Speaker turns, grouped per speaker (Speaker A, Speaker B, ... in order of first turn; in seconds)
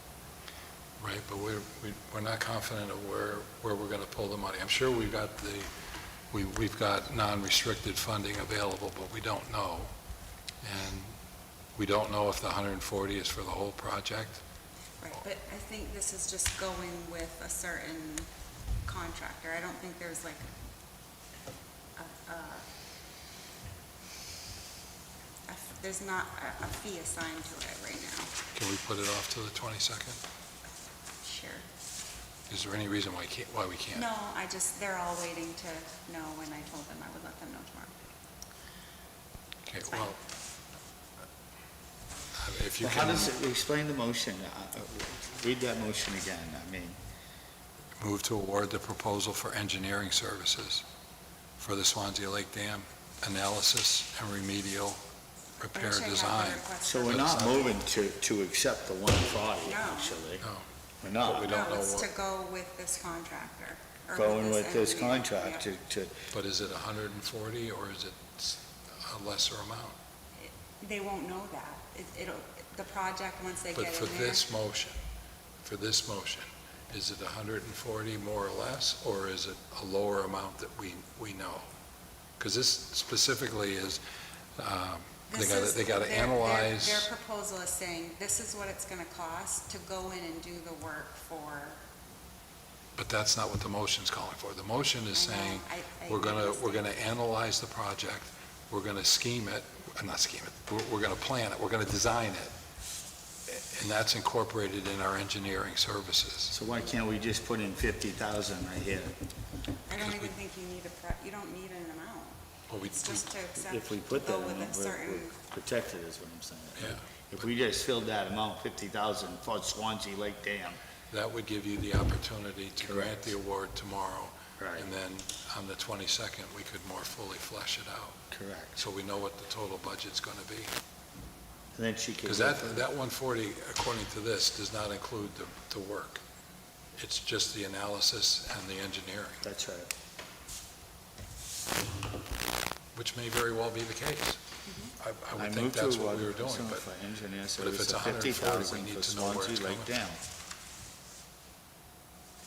Speaker A: 1.0-5.7, 6.3-9.9, 10.6-11.1, 11.8-14.4, 28.5-30.2, 32.5-34.0, 39.6-40.2, 42.4-43.3, 48.0-50.8, 51.6-55.0, 55.6-57.7, 61.2-62.1, 66.3-70.0, 73.7-75.0, 75.6-81.7, 82.4-84.0, 84.6-87.1, 93.0-102.5, 103.5-106.5, 110.0-110.3, 112.7-113.2, 116.8-117.2, 121.1-128.2, 128.8-130.7, 132.2-136.2, 137.0-139.4, 142.9-144.4, 145.0-146.8, 147.6-150.0
Speaker B: 15.0-18.3, 18.8-20.4, 22.0-22.6, 25.5-28.3, 31.2-31.6, 33.9-37.9, 55.7-57.7, 59.6-60.2, 61.5-65.7, 70.4-74.5, 85.3-91.8, 95.1-96.9, 109.9-112.4, 112.9-115.4, 144.6-144.9
Speaker C: 42.8-47.0, 56.8-60.4, 61.0-61.6, 64.1-66.2, 106.5-109.2, 113.6-120.8, 122.8-123.3, 124.6-124.9, 128.3-128.8, 131.7-132.8, 139.4-139.9, 145.3-150.2